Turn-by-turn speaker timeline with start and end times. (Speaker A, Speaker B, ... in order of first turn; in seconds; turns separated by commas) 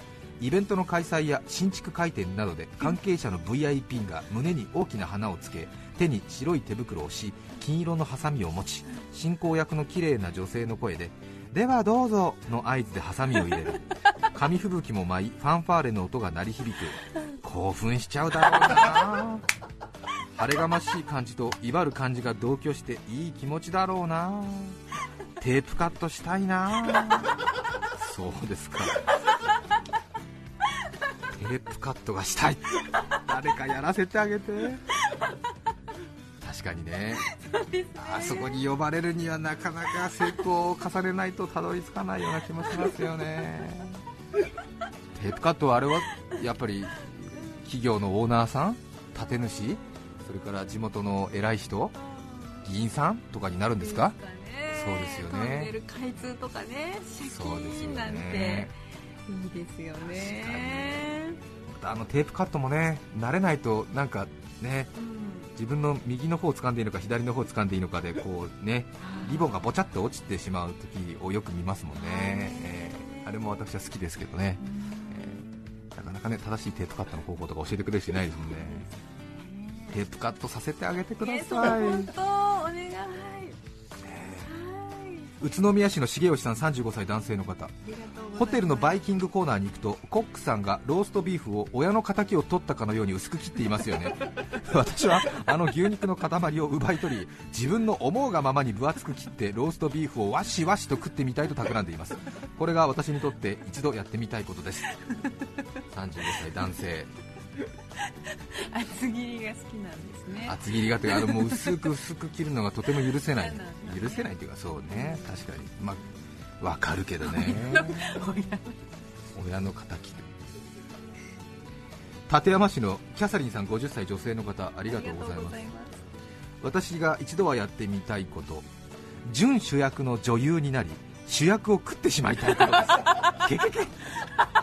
Speaker A: 0.4-19.4, Speaker A: 20.3-24.8, Speaker A: 25.4-27.3, Speaker A: 27.9-29.0, Speaker A: 31.3-34.8, Speaker A: 36.4-37.2, Speaker B: 37.3-38.6, Speaker A: 38.0-44.0, Speaker A: 45.1-51.9, Speaker B: 52.0-52.6, Speaker A: 52.6-54.1, Speaker B: 53.8-58.8, Speaker A: 54.7-55.7, Speaker A: 57.2-58.7, Speaker B: 59.3-61.4, Speaker A: 60.0-61.1, Speaker A: 61.7-64.9, Speaker B: 65.0-65.5, Speaker A: 65.5-78.9, Speaker B: 69.0-69.7, Speaker B: 72.0-73.1, Speaker B: 74.6-75.4, Speaker B: 78.4-80.0, Speaker A: 79.9-82.1, Speaker B: 81.2-83.6, Speaker A: 84.0-84.5, Speaker B: 84.4-85.3, Speaker A: 85.4-87.7, Speaker B: 87.8-89.0, Speaker A: 88.3-104.9, Speaker A: 105.9-107.1, Speaker B: 108.5-111.9, Speaker A: 110.4-116.0, Speaker B: 113.0-114.3, Speaker B: 114.9-115.3, Speaker A: 116.6-118.3, Speaker B: 117.2-118.7, Speaker A: 119.3-120.3, Speaker A: 122.3-125.6, Speaker B: 124.8-126.0, Speaker A: 126.6-128.7, Speaker A: 129.2-133.9